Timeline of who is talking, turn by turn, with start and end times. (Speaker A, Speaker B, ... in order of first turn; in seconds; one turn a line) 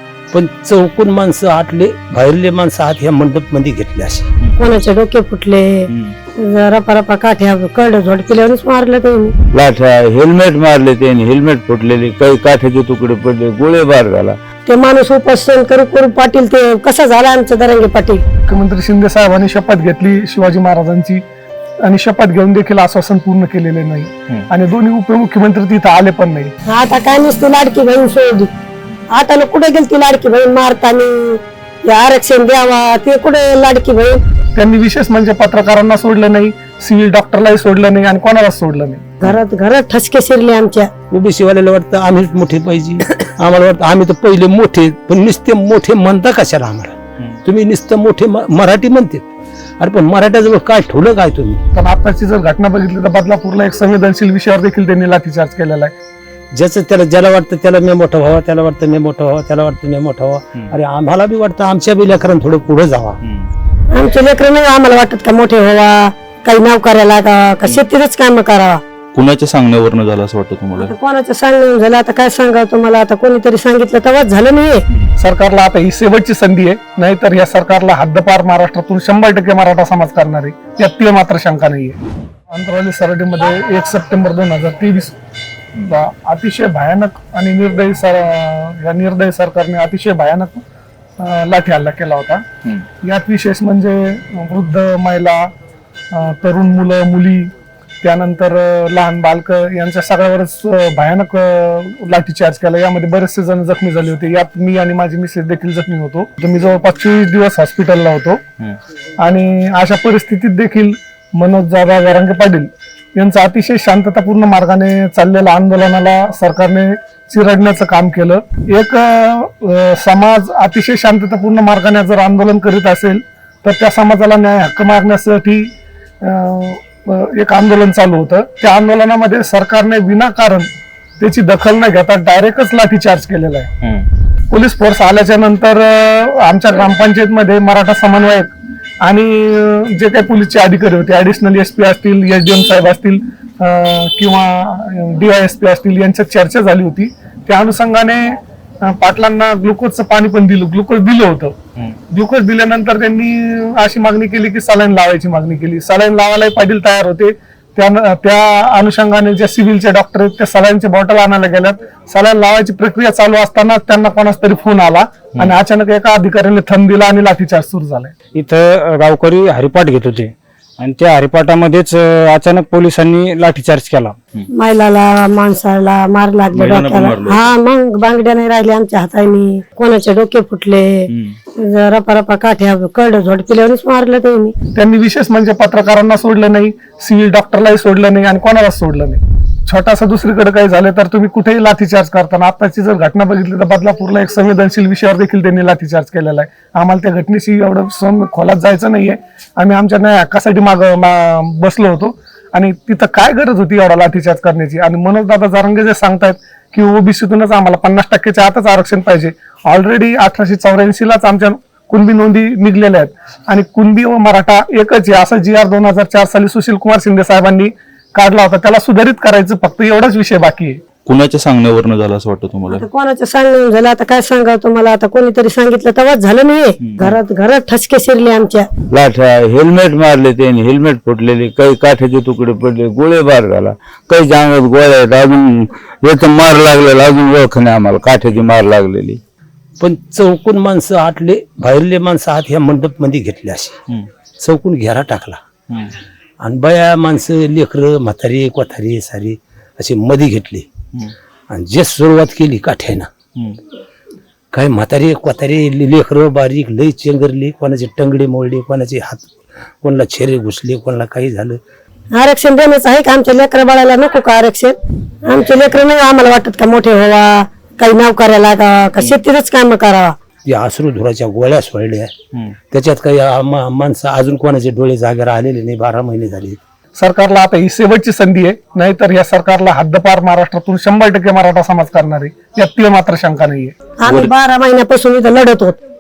Speaker A: 0.3-4.3
Speaker B: 4.6-9.3
Speaker C: 9.5-14.4
Speaker B: 14.7-18.2
Speaker D: 18.5-21.2
Speaker D: 21.8-26.5
Speaker B: 26.7-28.5
Speaker B: 29.1-34.2
Speaker D: 34.6-39.0
Speaker B: 39.2-40.9
Speaker A: 41.1-49.3
Speaker A: 49.8-51.6
Speaker D: 51.8-55.9
Speaker A: 56.5-63.2
Speaker E: 63.2-63.5
Speaker B: 63.9-68.8
Speaker E: 69.1-70.9
Speaker B: 70.8-74.8
Speaker D: 75.2-82.0
Speaker D: 82.5-85.2
Speaker D: 85.9-90.6
Speaker D: 91.2-92.5
Speaker D: 93.0-95.5
Speaker D: 96.1-108.4
Speaker D: 109.2-125.7
Speaker D: 126.2-133.7
Speaker D: 134.5-138.5
Speaker D: 139.0-151.6
Speaker D: 152.1-168.1
Speaker E: 165.3-165.6
Speaker F: 168.4-174.2
Speaker B: 174.6-181.1
Speaker E: 176.5-177.5
Speaker B: 181.6-184.6
Speaker D: 184.8-220.8
Speaker E: 221.1-222.9
Speaker B: 222.7-228.7
Speaker E: 226.9-227.2
Speaker C: 228.9-239.2
Speaker A: 239.8-243.8
Speaker A: 244.4-245.4
Speaker E: 245.7-245.9
Speaker A: 246.4-250.7
Speaker A: 251.5-253.1
Speaker A: 254.5-259.3
Speaker A: 259.8-261.6
Speaker B: 262.1-270.1
Speaker A: 270.5-272.1
Speaker A: 272.7-276.6
Speaker D: 277.0-283.7
Speaker B: 284.0-285.8